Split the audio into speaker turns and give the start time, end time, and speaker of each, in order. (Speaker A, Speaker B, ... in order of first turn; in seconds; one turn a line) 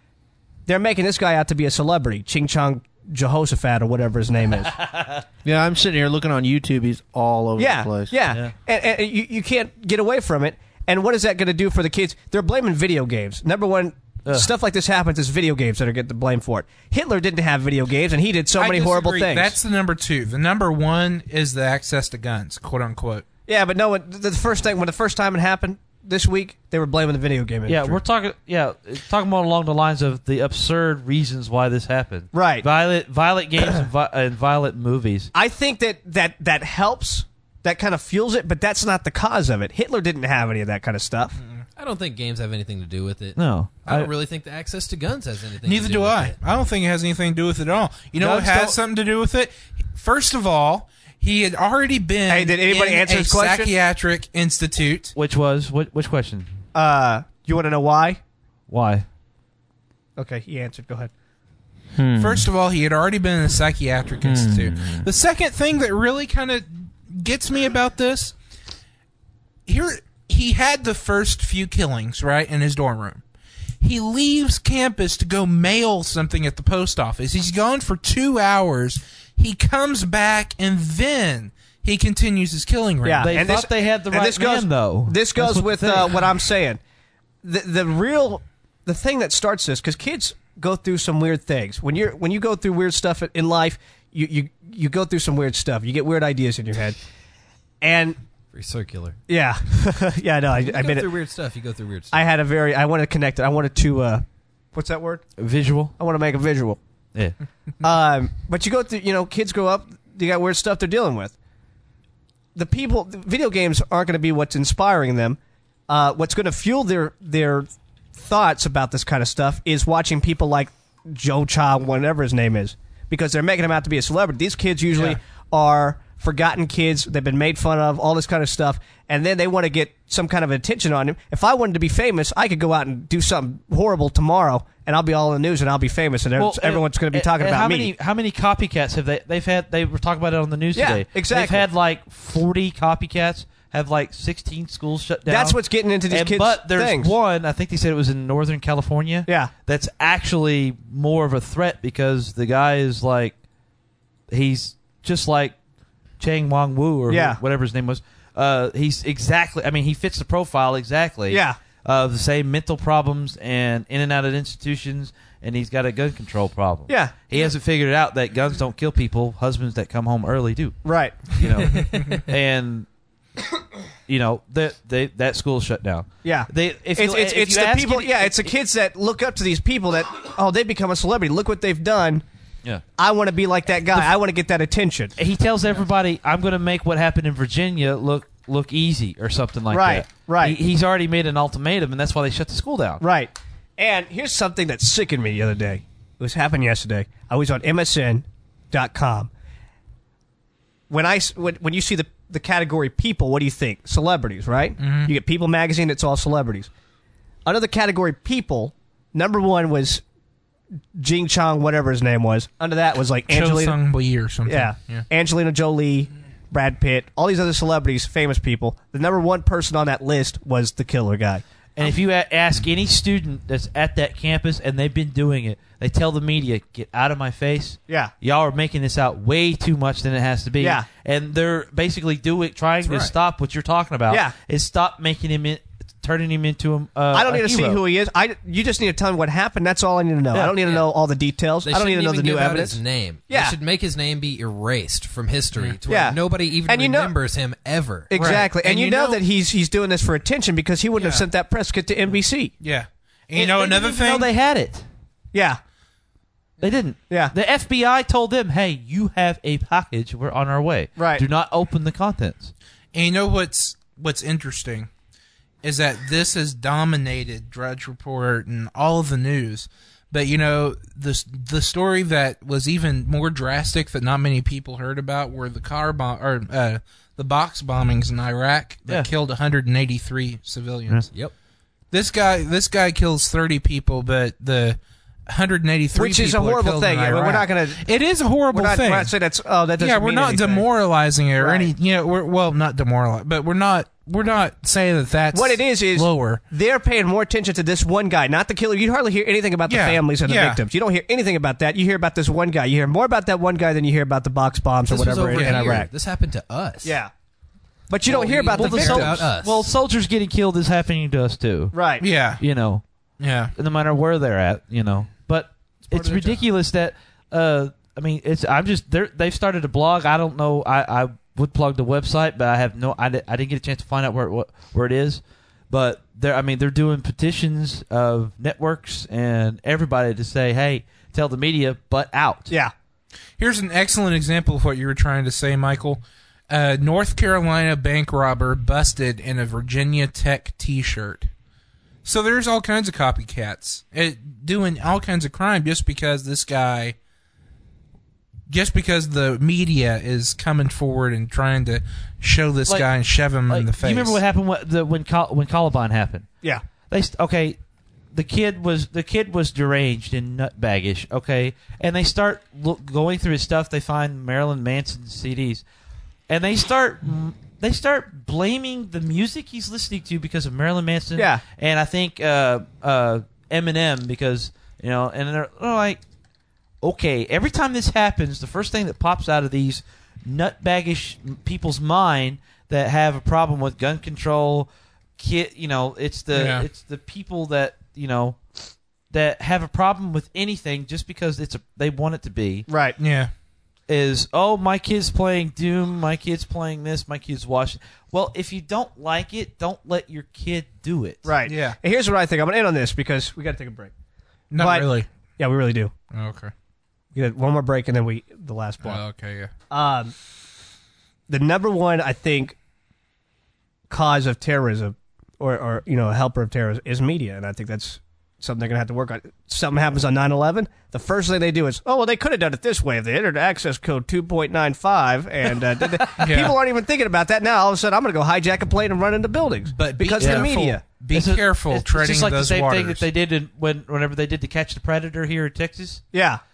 Speaker A: 0.7-4.7
Speaker B: 4.8-5.2
Speaker C: 5.4-8.1
Speaker A: 7.6-19.6
Speaker D: 18.6-23.2
Speaker A: 23.5-28.0
Speaker B: 27.7-35.3
Speaker A: 32.3-32.7
Speaker A: 35.3-41.4
Speaker E: 41.8-46.4
Speaker B: 43.4-44.1
Speaker D: 45.6-55.1
Speaker B: 48.2-48.8
Speaker A: 52.3-53.7
Speaker B: 55.1-56.5
Speaker A: 56.7-58.2
Speaker B: 58.7-59.0
Speaker A: 60.2-61.1
Speaker D: 62.1-68.3
Speaker D: 69.7-73.2
Speaker D: 73.8-83.3
Speaker A: 83.0-86.8
Speaker B: 83.2-86.2
Speaker A: 87.4-97.0
Speaker A: 97.8-98.2
Speaker E: 98.5-99.2
Speaker A: 99.3-101.1
Speaker E: 100.5-102.2
Speaker A: 102.1-105.2
Speaker B: 105.4-105.9
Speaker A: 106.0-106.8
Speaker A: 107.8-111.3
Speaker A: 112.5-137.9
Speaker B: 136.4-145.6
Speaker A: 140.7-141.7
Speaker A: 145.3-147.1
Speaker B: 146.1-153.3
Speaker A: 149.2-149.5
Speaker B: 154.3-155.6
Speaker B: 156.2-172.9
Speaker A: 157.1-157.4
Speaker A: 161.3-161.6
Speaker A: 166.9-167.5
Speaker A: 170.8-171.4
Speaker B: 174.1-178.5
Speaker A: 176.2-182.2
Speaker A: 183.0-185.1
Speaker B: 185.2-193.0
Speaker A: 189.7-190.6
Speaker A: 193.0-199.3
Speaker A: 200.9-206.7
Speaker D: 204.8-205.1
Speaker A: 207.4-210.0
Speaker A: 210.9-213.8
Speaker D: 213.3-215.1
Speaker A: 214.4-221.9
Speaker B: 221.8-237.8
Speaker A: 230.6-230.8
Speaker E: 232.8-233.1
Speaker A: 234.1-234.3
Speaker A: 237.1-243.6
Speaker B: 240.3-240.8
Speaker E: 241.6-248.4
Speaker A: 245.9-247.1
Speaker A: 248.1-252.5
Speaker D: 248.1-249.2
Speaker D: 250.9-251.2
Speaker D: 252.6-254.3
Speaker B: 253.3-254.8
Speaker A: 255.3-255.6
Speaker B: 256.6-262.5
Speaker A: 261.0-261.2
Speaker D: 262.9-264.9
Speaker D: 265.6-281.1
Speaker D: 281.9-289.1
Speaker A: 285.9-287.8
Speaker A: 288.5-290.7
Speaker D: 289.8-296.4
Speaker A: 291.4-291.7
Speaker A: 295.3-305.9
Speaker D: 299.7-300.6
Speaker E: 304.9-307.0
Speaker D: 305.3-305.7
Speaker A: 306.8-307.1
Speaker A: 307.9-309.2
Speaker B: 308.1-311.7
Speaker E: 308.4-309.7
Speaker A: 311.7-312.0
Speaker D: 312.0-312.4
Speaker B: 312.4-312.8
Speaker D: 313.2-313.5
Speaker B: 313.6-332.5
Speaker A: 315.9-316.4
Speaker D: 333.4-341.3
Speaker D: 342.0-346.9
Speaker D: 348.5-354.2
Speaker B: 353.5-356.3
Speaker B: 356.9-357.6
Speaker B: 358.1-365.6
Speaker B: 366.3-376.0
Speaker A: 371.1-371.4
Speaker B: 376.8-388.4
Speaker D: 386.3-386.7
Speaker B: 389.1-392.7
Speaker A: 392.7-393.0
Speaker D: 393.0-393.3
Speaker B: 393.9-401.2
Speaker A: 401.2-403.9
Speaker D: 401.4-401.8
Speaker D: 404.5-405.1
Speaker A: 404.6-404.9
Speaker A: 405.4-405.9
Speaker D: 406.1-406.5
Speaker A: 407.1-409.0
Speaker D: 408.8-409.5
Speaker A: 409.7-410.1
Speaker A: 411.3-412.6
Speaker A: 413.9-430.8
Speaker D: 426.2-426.5
Speaker D: 429.7-433.1
Speaker B: 430.2-430.5
Speaker B: 431.1-436.0
Speaker A: 436.1-436.4